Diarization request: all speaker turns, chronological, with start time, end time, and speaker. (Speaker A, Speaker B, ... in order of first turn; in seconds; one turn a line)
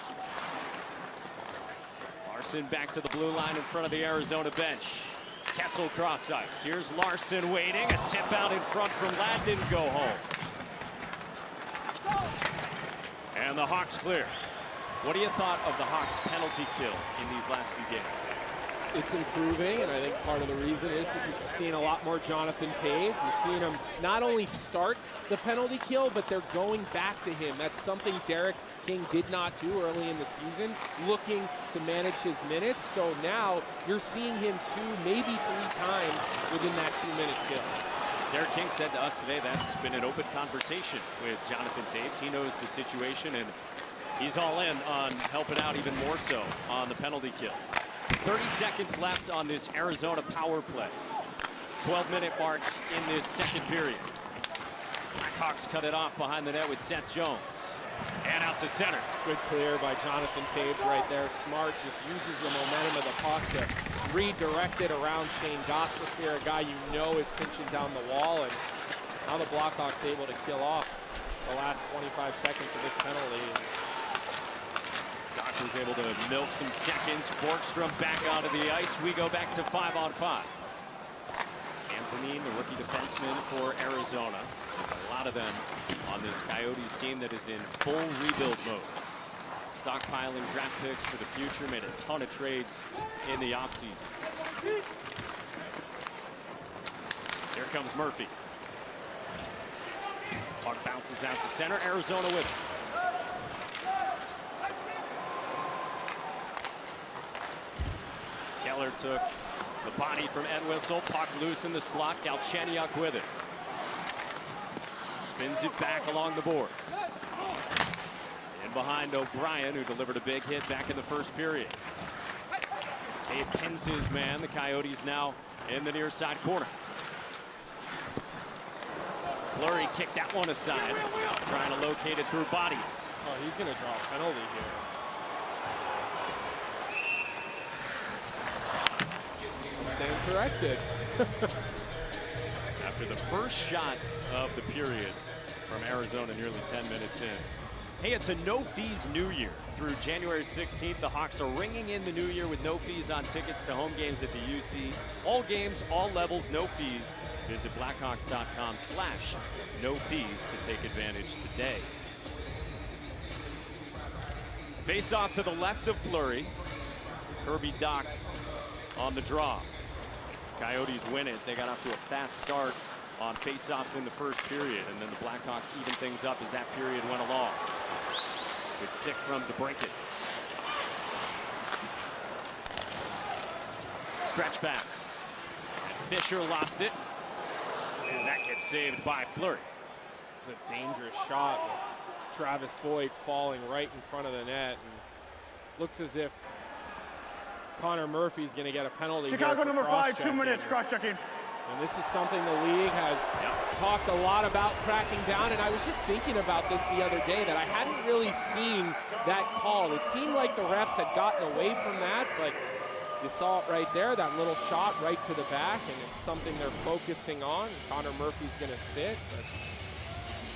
Speaker A: 2.2-10.3
Speaker A: 13.3-14.4
Speaker A: 15.0-18.2
Speaker B: 18.9-37.8
Speaker A: 38.3-43.5
Speaker A: 44.2-51.0
Speaker A: 51.8-54.1
Speaker A: 55.2-59.1
Speaker B: 59.2-68.6
Speaker B: 69.2-73.7
Speaker A: 75.3-80.5
Speaker A: 81.9-89.0
Speaker A: 89.7-94.2
Speaker A: 97.5-98.3
Speaker A: 100.6-102.5
Speaker A: 108.6-113.3
Speaker A: 115.2-117.0
Speaker A: 118.5-121.8
Speaker A: 123.2-126.7
Speaker A: 129.5-133.1
Speaker B: 133.2-134.8
Speaker B: 139.8-141.5
Speaker A: 142.8-147.5
Speaker A: 148.0-161.9
Speaker A: 164.8-166.5
Speaker A: 167.4-168.2
Speaker A: 168.9-169.7
Speaker A: 170.6-177.7
Speaker A: 178.8-180.0
Speaker A: 184.2-185.2
Speaker A: 186.0-187.0
Speaker A: 188.0-189.7
Speaker B: 190.4-195.0
Speaker B: 195.8-196.5
Speaker B: 197.8-200.8
Speaker C: 199.2-201.2
Speaker B: 201.7-212.6
Speaker B: 213.2-219.6